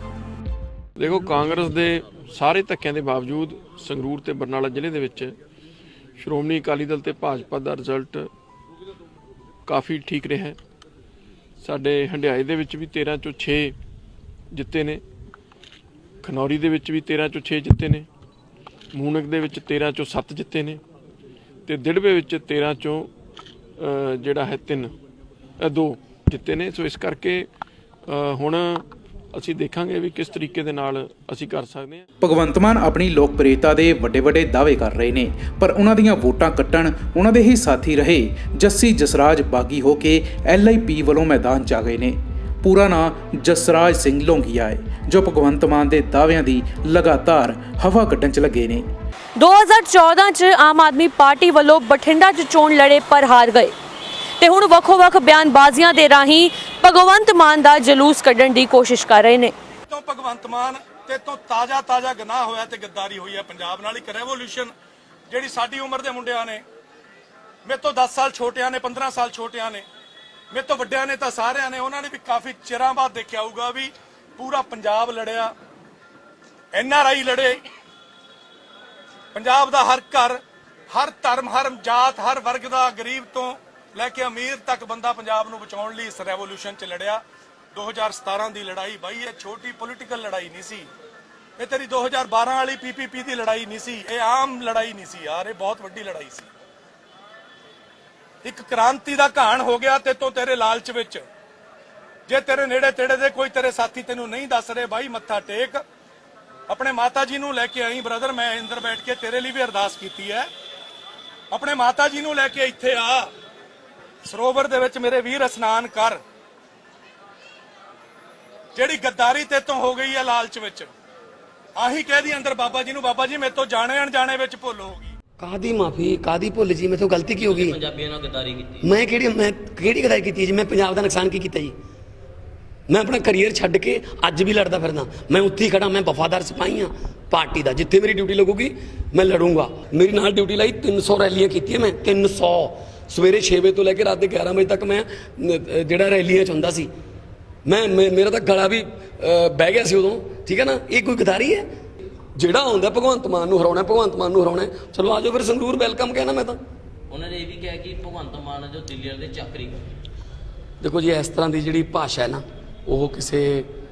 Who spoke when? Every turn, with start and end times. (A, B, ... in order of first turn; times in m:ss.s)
0:01.0-0:05.3 A
0:06.2-0:08.2 A
0:09.7-0:10.6 A
0:11.6-0:13.7 A
0:14.5-0:15.0 A
0:16.2-0:18.1 A
0:18.9-0:20.8 A
0:21.7-0:23.1 A
0:23.8-0:24.9 A
0:25.6-0:27.5 A
0:28.1-0:28.8 A
0:29.3-0:32.0 A
0:32.2-0:48.9 B
0:49.4-0:53.8 C
0:54.4-0:59.5 C
0:59.9-1:04.7 D
1:05.3-1:06.6 D
1:07.6-1:09.9 D
1:10.5-1:15.5 D
1:16.7-1:17.6 D
1:19.3-1:20.4 D
1:20.9-1:27.2 D
1:27.7-1:30.9 D
1:31.6-1:36.5 D
1:38.4-1:41.3 D
1:42.3-1:45.8 D
1:46.7-1:50.5 D
1:51.5-1:53.3 D
1:54.2-1:56.2 D
1:58.8-2:00.9 D
2:01.8-2:05.1 D
2:05.4-2:07.8 E
2:07.4-2:09.1 F
2:08.8-2:11.8 E
2:12.9-2:26.9 E
2:27.6-2:31.7 E
2:32.4-2:36.6 E
2:37.1-2:39.8 F
2:40.8-2:43.7 E